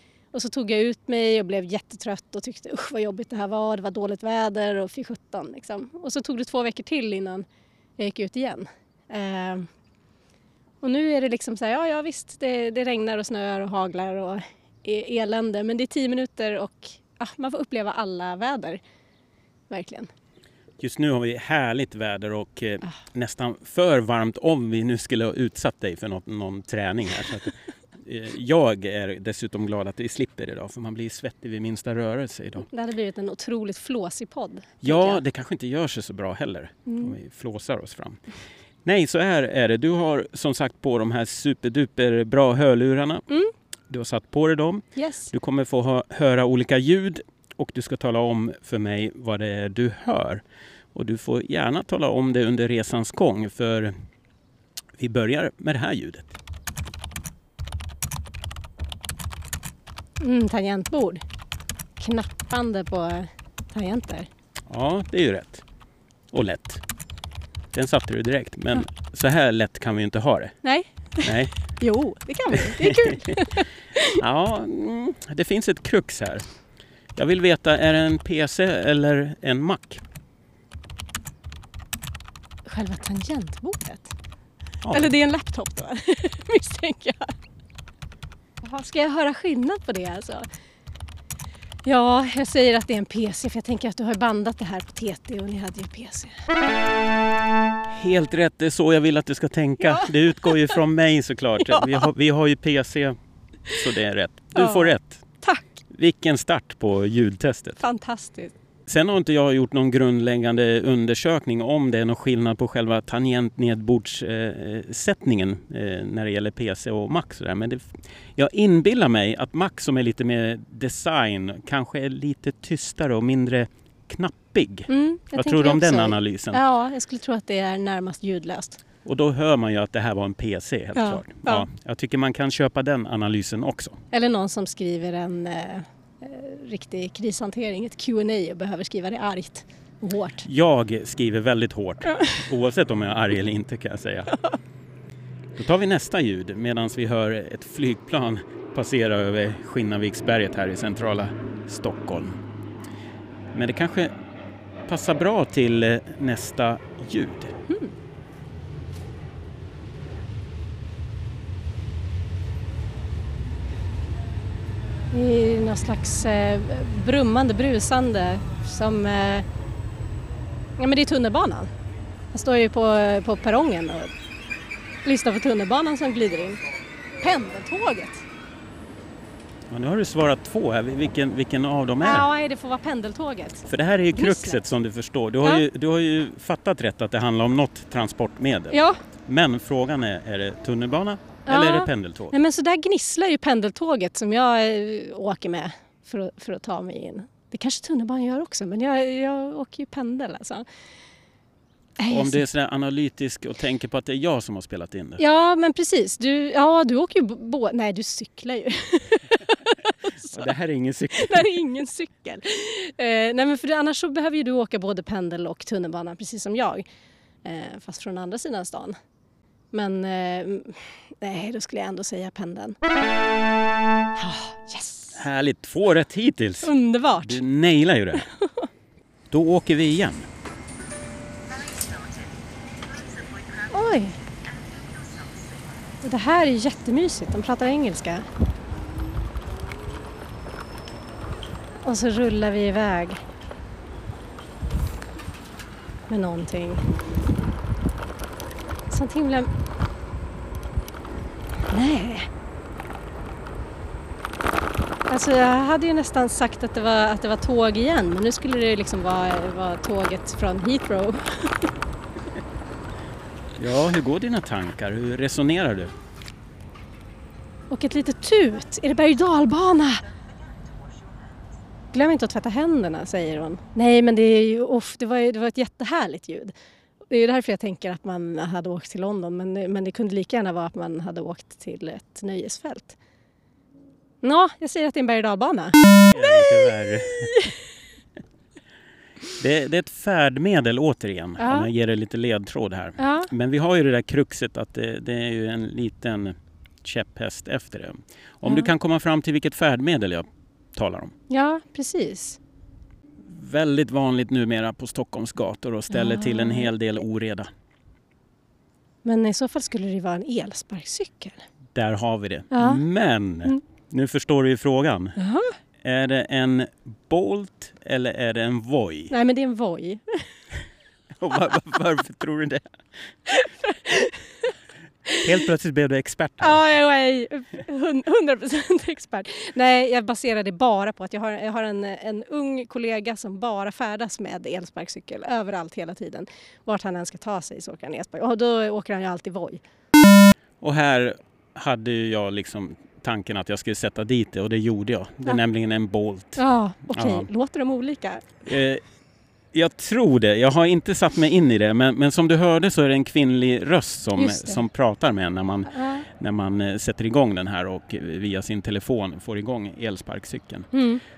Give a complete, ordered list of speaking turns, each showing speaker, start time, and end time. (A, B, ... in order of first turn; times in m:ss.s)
0:00.3-0:07.4 A
0:08.0-0:09.7 A
0:10.8-0:18.8 A
0:19.7-0:20.1 A
0:20.8-0:32.7 B
0:32.7-0:35.2 A
0:34.8-0:38.2 B
0:36.9-0:37.1 A
0:38.8-0:43.2 B
0:43.9-0:50.4 B
0:45.0-0:45.3 A
0:50.9-0:53.9 B
0:55.0-0:56.4 B
1:00.2-1:01.2 A
1:02.0-1:04.3 A
1:04.7-1:05.6 B
1:06.3-1:06.8 B
1:07.7-1:10.6 B
1:10.6-1:14.2 A
1:11.2-1:11.5 B
1:12.6-1:13.3 B
1:14.1-1:16.5 B
1:17.2-1:20.0 B
1:22.6-1:24.1 A
1:24.8-1:25.1 B
1:24.9-1:27.3 A
1:28.6-1:30.5 A
1:31.8-1:36.4 A
1:37.8-1:43.2 B
1:39.8-1:40.8 A
1:41.6-1:42.1 A
1:43.7-1:45.2 B
1:44.5-1:45.8 A
1:45.9-1:47.8 B
1:47.8-1:48.5 A
1:48.8-2:06.6 B
2:04.9-2:08.8 A
2:09.0-2:14.0 B
2:10.9-2:11.6 A
2:14.1-2:20.4 A
2:20.4-2:24.4 B
2:22.1-2:22.4 A
2:25.6-2:32.4 B
2:33.5-2:34.1 B
2:34.9-2:37.5 B
2:45.1-2:49.5 A
2:50.8-2:51.7 A
2:52.3-2:54.1 A
2:55.0-2:56.6 A
2:57.2-2:58.2 A
2:59.7-3:02.3 B
3:02.0-3:04.6 A
3:03.6-3:12.3 B
3:08.7-3:09.0 A
3:11.5-3:20.6 A
3:22.0-3:22.4 A
3:22.1-3:25.2 B
3:25.2-3:30.5 A
3:30.2-3:31.6 B
3:31.1-3:36.8 A
3:37.4-3:38.9 A
3:39.7-3:42.8 A
3:44.2-3:45.2 A
3:45.2-3:48.3 B
3:46.6-3:47.4 A
3:48.1-3:48.7 A
3:49.3-3:50.3 B
3:53.7-3:54.2 A
3:56.0-3:58.3 A
4:01.8-4:03.2 A
4:06.1-4:06.9 A
4:08.9-4:09.5 A
4:11.7-4:12.3 A
4:15.1-4:21.7 A
4:23.6-4:25.9 B
4:27.7-4:30.0 A
4:31.9-4:36.5 A
4:37.1-4:43.0 A
4:44.2-4:47.6 A
4:46.1-4:47.4 B
4:49.4-5:01.1 B
4:51.4-4:51.7 A
4:53.0-4:53.3 A
5:01.3-5:02.4 A
5:03.2-5:07.5 B
5:05.9-5:06.7 A
5:09.0-5:11.4 A
5:11.7-5:15.2 B
5:12.5-5:12.8 A
5:15.2-5:15.6 A
5:15.8-5:19.1 B
5:19.1-5:20.4 A
5:21.1-5:22.7 B
5:23.3-5:24.5 A
5:25.0-5:25.3 A
5:25.2-5:26.6 B
5:26.4-5:39.6 A
5:40.6-5:46.4 B
5:46.4-5:48.3 A
5:46.9-5:47.3 B
5:48.4-5:48.8 B
5:49.5-6:00.7 B
5:54.2-5:54.6 A
5:55.7-5:56.0 A
6:00.7-6:01.0 A